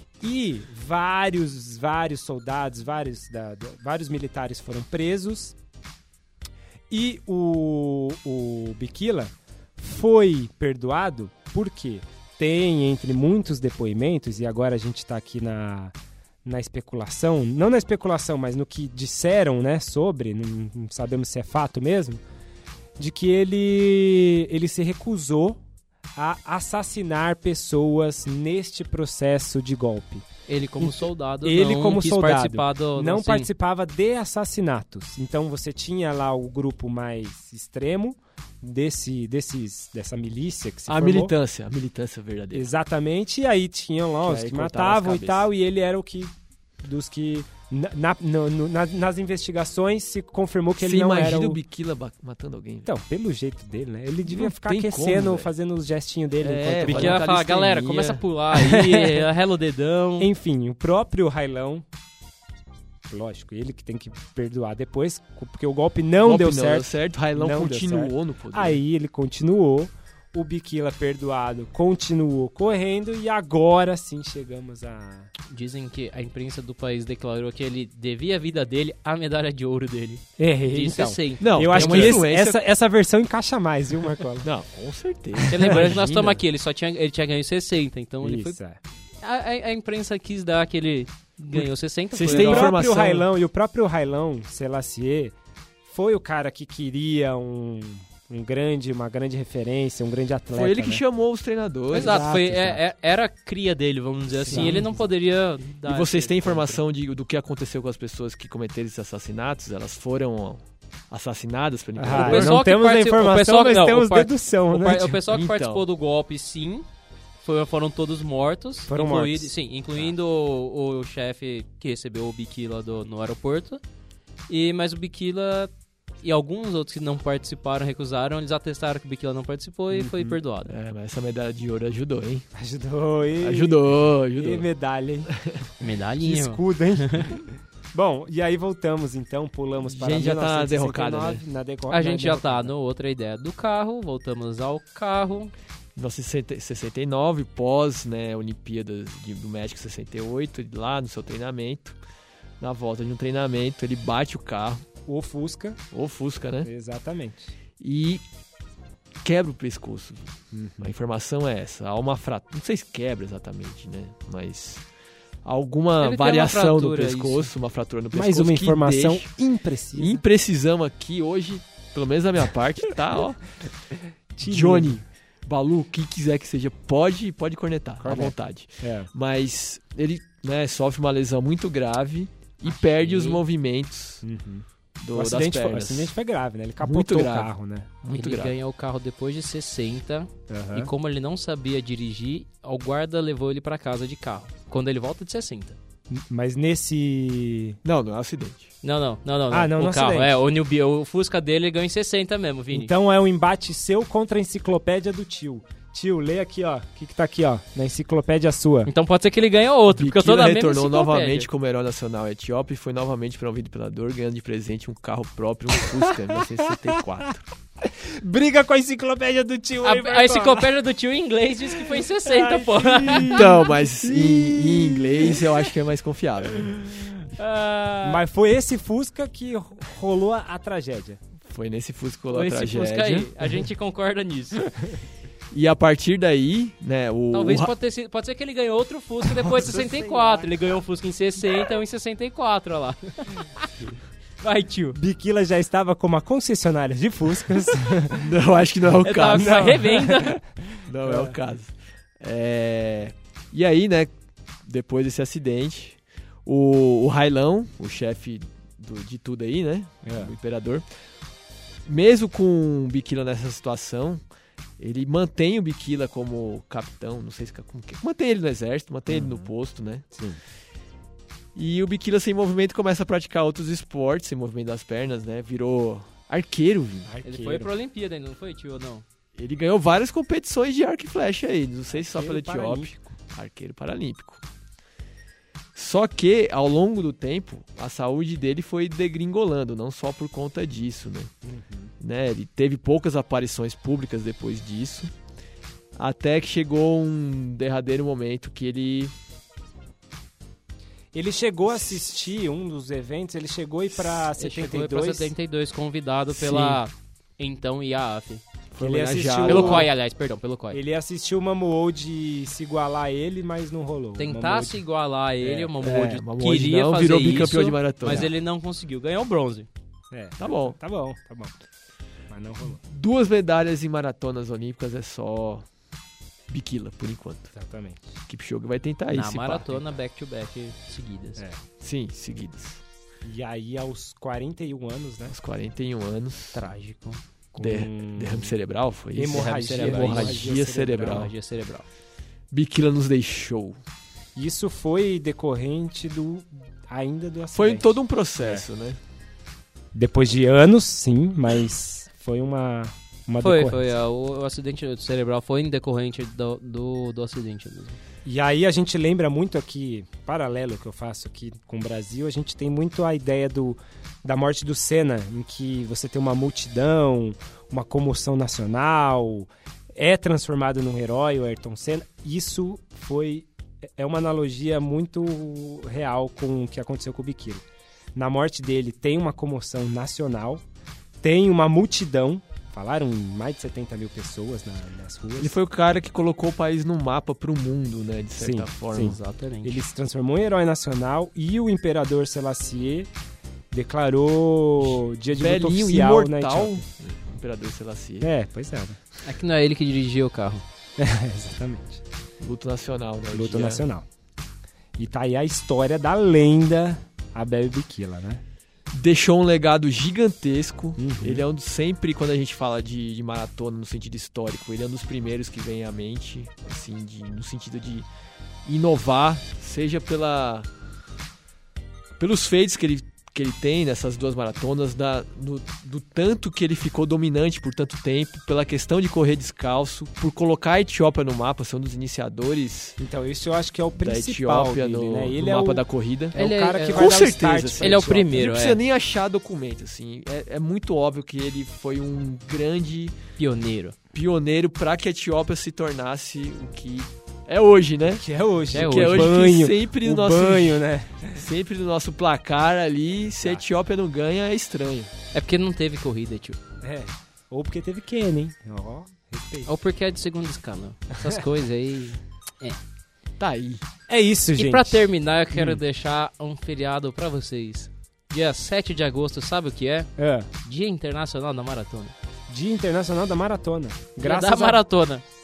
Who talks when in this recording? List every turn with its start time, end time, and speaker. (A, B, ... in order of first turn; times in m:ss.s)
0:00.2-0:05.5 A
0:06.9-0:22.2 A
0:23.0-0:25.6 A
0:26.2-0:30.2 A
0:30.5-0:33.5 B
0:30.8-0:41.3 A
0:40.9-0:42.7 C
0:42.5-0:51.6 A
0:44.2-0:45.5 C
0:50.8-0:52.9 C
0:52.8-0:57.2 A
0:54.3-0:55.5 C
0:56.4-0:58.2 C
0:56.8-1:00.3 B
0:58.5-0:59.3 A
1:00.2-1:01.8 A
1:03.1-1:15.3 A
1:06.2-1:08.8 C
1:15.5-1:22.2 B
1:20.4-1:24.5 A
1:21.4-1:22.6 C
1:24.4-1:26.4 C
1:25.4-1:26.0 A
1:25.5-1:28.6 B
1:28.2-1:28.8 A
1:29.2-1:32.7 B
1:32.1-1:33.2 C
1:32.2-1:41.0 A
1:40.5-1:42.3 C
1:41.9-1:46.8 B
1:41.9-1:42.8 A
1:44.3-1:44.9 C
1:44.5-1:44.9 A
1:45.8-1:52.6 C
1:52.0-1:55.2 A
1:52.1-1:56.8 B
1:55.1-1:55.8 C
1:57.4-2:03.8 B
1:58.9-1:59.5 A
2:04.5-2:10.7 B
2:09.9-2:10.4 A
2:10.6-2:12.4 C
2:12.5-2:13.8 A
2:13.4-2:14.6 C
2:14.4-2:15.3 A
2:15.3-2:15.6 C
2:15.8-2:17.4 B
2:16.2-2:22.7 A
2:19.8-2:21.4 C
2:21.9-2:25.5 B
2:26.0-2:32.0 C
2:32.6-2:34.8 C
2:35.0-2:35.8 A
2:35.9-2:36.7 C
2:36.6-2:37.5 A
2:37.8-2:38.2 C
2:39.2-2:44.8 C
2:40.5-2:40.9 A
2:45.4-2:49.3 C
2:46.0-2:47.5 B
2:48.1-2:50.2 A
2:49.9-2:53.6 C
2:54.3-2:55.0 A
2:54.4-3:04.2 C
2:58.0-2:59.1 A
3:02.6-3:03.4 B
3:04.2-3:08.0 A
3:05.0-3:06.1 C
3:06.8-3:08.5 C
3:08.1-3:15.8 B
3:10.5-3:10.9 A
3:16.1-3:17.8 A
3:17.8-3:18.7 C
3:18.8-3:22.9 B
3:19.5-3:20.3 A
3:22.7-3:28.9 A
3:28.8-3:31.5 B
3:29.9-3:37.4 C
3:35.8-3:37.0 A
3:37.8-3:40.7 A
3:39.8-3:43.4 B
3:41.7-3:45.7 A
3:43.2-3:46.9 C
3:46.6-3:47.0 A
3:47.3-3:48.2 B
3:48.0-3:51.2 A
3:51.4-3:53.3 C
3:52.3-3:54.6 B
3:55.5-3:57.7 C
3:57.3-4:03.7 B
3:59.4-4:00.5 A
4:04.4-4:05.0 B
4:04.9-4:08.3 A
4:08.1-4:09.8 C
4:09.0-4:10.4 B
4:09.2-4:11.3 A
4:10.8-4:14.1 C
4:14.6-4:20.8 C
4:20.0-4:20.3 A
4:21.8-4:24.2 C
4:24.8-4:30.0 C
4:29.1-4:29.5 A
4:30.1-4:30.4 A
4:31.6-4:37.1 C
4:37.0-4:37.7 A
4:37.2-4:39.0 B
4:39.4-4:44.4 C
4:41.9-4:43.1 A
4:45.7-4:51.3 C
4:51.4-4:51.9 A
4:52.0-4:55.1 C
4:56.0-4:59.1 C
5:01.1-5:05.3 A
5:04.3-5:08.4 B
5:06.3-5:06.8 C
5:08.7-5:09.9 C
5:08.8-5:09.9 A
5:09.4-5:10.8 B
5:10.7-5:14.8 A
5:14.2-5:19.7 B
5:15.4-5:18.3 C
5:20.1-5:21.6 A
5:20.4-5:20.8 C
5:22.3-5:22.8 A
5:22.6-5:25.6 C
5:26.5-5:27.5 C
5:27.5-5:28.0 A
5:28.3-5:29.9 C
5:29.1-5:31.4 B
5:31.8-5:32.8 C
5:33.2-5:35.3 A
5:35.3-5:36.6 C
5:36.5-5:37.2 B
5:37.6-5:38.5 A
5:37.6-5:41.3 C
5:39.1-5:41.3 A
5:39.3-5:41.8 B
5:42.5-5:43.8 C
5:44.4-5:48.6 A
5:47.5-5:49.0 C
5:49.9-5:53.9 A
5:53.4-5:58.0 B
5:58.2-6:17.6 A
6:18.2-6:20.6 A
6:21.2-6:25.6 A
6:25.4-6:29.2 C
6:28.4-6:33.1 A
6:28.9-6:29.8 B
6:33.7-6:36.8 A
6:34.8-6:38.3 C
6:38.2-6:39.0 A
6:39.2-6:40.6 B
6:41.0-6:42.0 A
6:42.4-6:43.8 C
6:43.3-6:44.0 A
6:45.0-6:48.4 A
6:48.9-6:58.1 C
6:51.0-6:51.4 A
6:58.6-7:00.7 C
7:02.2-7:13.0 C
7:13.0-7:18.4 A
7:14.0-7:16.3 C
7:16.3-7:17.2 B
7:16.9-7:23.1 C
7:17.8-7:18.8 B
7:23.4-7:23.9 B
7:24.1-7:35.1 C
7:28.1-7:31.4 A
7:28.7-7:29.3 B
7:35.3-7:36.6 B
7:36.8-7:39.7 A
7:39.6-7:42.8 B
7:43.4-7:43.8 C
7:44.1-7:45.8 A
7:44.5-7:50.1 B
7:50.2-7:50.5 A
7:50.6-7:52.1 B
7:52.5-7:54.8 A
7:54.2-7:55.2 B